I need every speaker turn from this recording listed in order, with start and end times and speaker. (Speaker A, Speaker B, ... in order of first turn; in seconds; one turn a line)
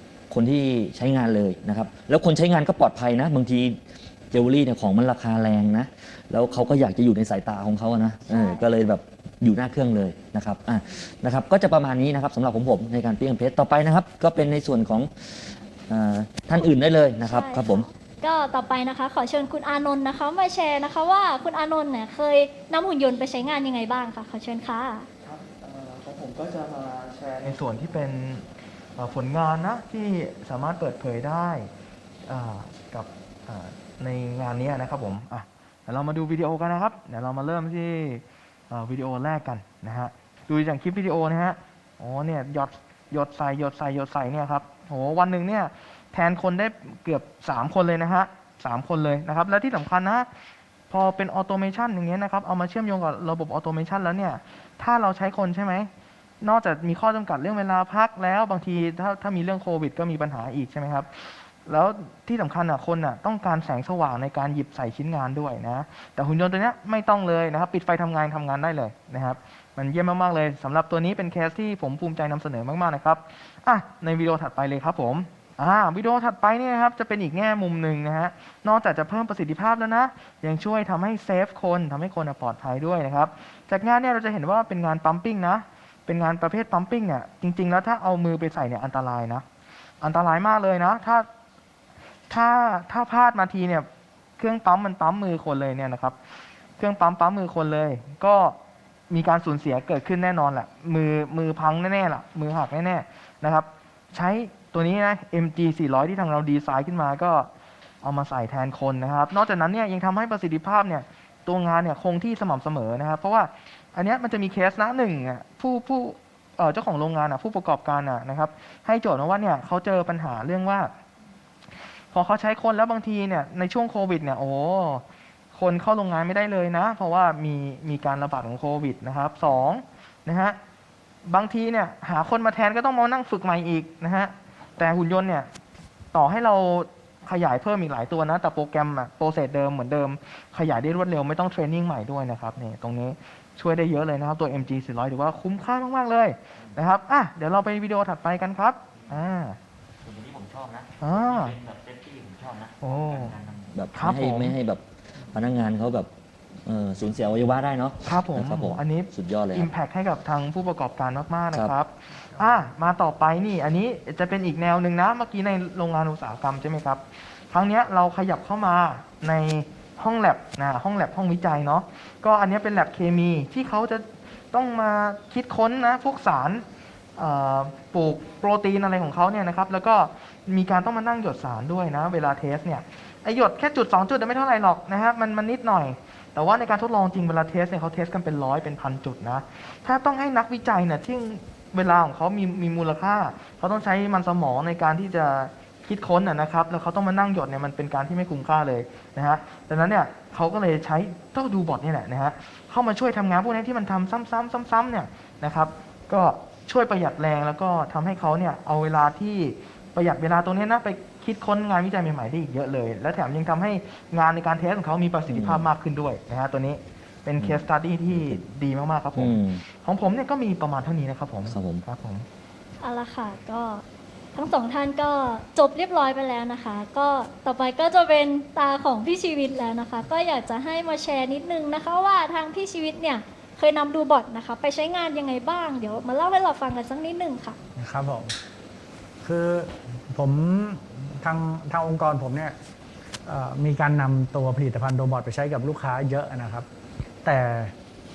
Speaker A: 0.3-3.8
Speaker A: 4.3-17.9
Speaker B: 8.3-8.6
Speaker B: 17.2-25.1
Speaker C: 25.2-31.7
Speaker C: 32.3-50.3
Speaker C: 50.9-55.9
Speaker C: 56.4-89.5
Speaker C: 90.0-91.3
Speaker C: 92.3-93.9
Speaker C: 94.4-96.2
Speaker C: 96.8-98.6
Speaker C: 99.1-107.5
Speaker C: 108.0-120.9
Speaker C: 122.1-130.6
Speaker C: 131.3-135.5
Speaker C: 136.1-149.6
Speaker A: 150.0-154.8
Speaker C: 151.0-151.6
Speaker C: 152.8-153.3
Speaker C: 153.9-154.5
Speaker A: 155.3-156.1
Speaker A: 156.7-159.7
Speaker C: 158.1-176.6
Speaker C: 177.2-222.3
Speaker A: 215.3-215.7
Speaker A: 217.4-218.4
Speaker A: 219.2-219.6
Speaker A: 221.5-221.9
Speaker B: 222.8-223.8
Speaker B: 224.3-237.6
Speaker D: 237.8-238.3
Speaker D: 239.2-242.6
Speaker D: 243.3-246.7
Speaker D: 247.2-247.7